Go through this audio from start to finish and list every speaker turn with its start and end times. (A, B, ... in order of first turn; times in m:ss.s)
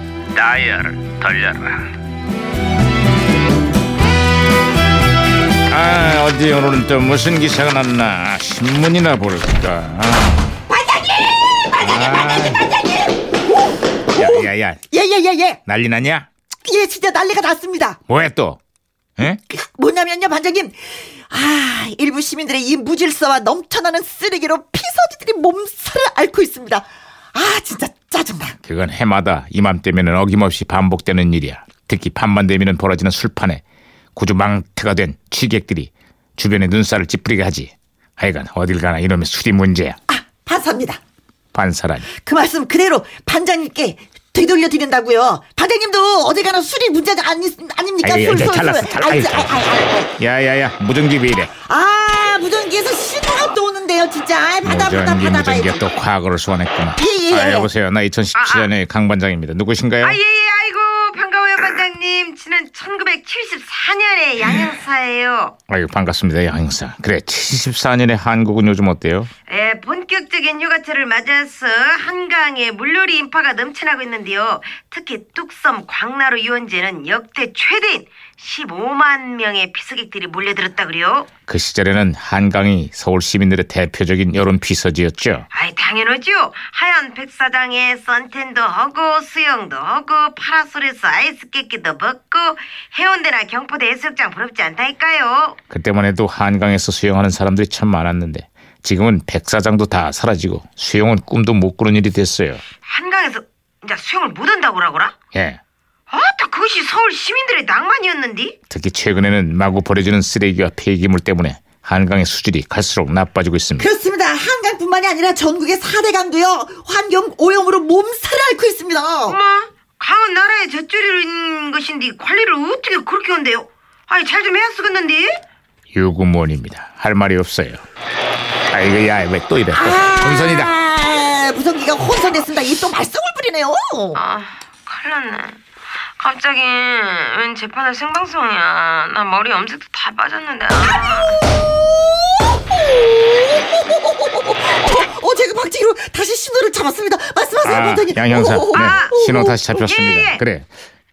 0:00.3-0:01.9 A
0:05.7-0:10.5 A
0:10.7-0:13.3 B
0:11.8-0:12.7 A
0:14.1-0:15.6 B
0:14.1-0:14.8 A
0:15.6-0:16.3 A
0:16.6-0:18.0 B
0:18.1-0:18.6 A
0:19.5-0:28.6 B
0:28.6-0:33.6 A
0:34.1-0:40.0 A
0:40.1-0:41.0 B
0:41.5-0:42.1 A
0:42.1-0:50.2 B
0:48.0-0:51.5 A
0:51.6-0:55.9 B
0:54.6-1:00.2 A
0:57.0-0:57.7 B
0:58.3-0:58.7 C
1:00.0-1:05.5 C
1:05.7-1:09.3 A
1:09.5-1:21.3 C
1:21.5-1:25.4 A
1:25.5-1:35.6 C
1:35.7-1:42.6 A
1:42.8-1:45.1 C
1:45.3-1:45.6 A
1:46.1-1:48.6 C
1:48.7-1:53.9 A
1:53.8-1:59.4 B
1:59.3-2:05.4 C
2:05.9-2:07.8 A
2:08.7-2:10.7 A
2:09.7-2:14.2 B
2:14.1-2:15.6 C
2:16.2-2:21.4 C
2:22.6-2:29.8 B
2:27.6-2:30.7 A
2:28.7-2:29.2 C
2:29.8-2:30.4 C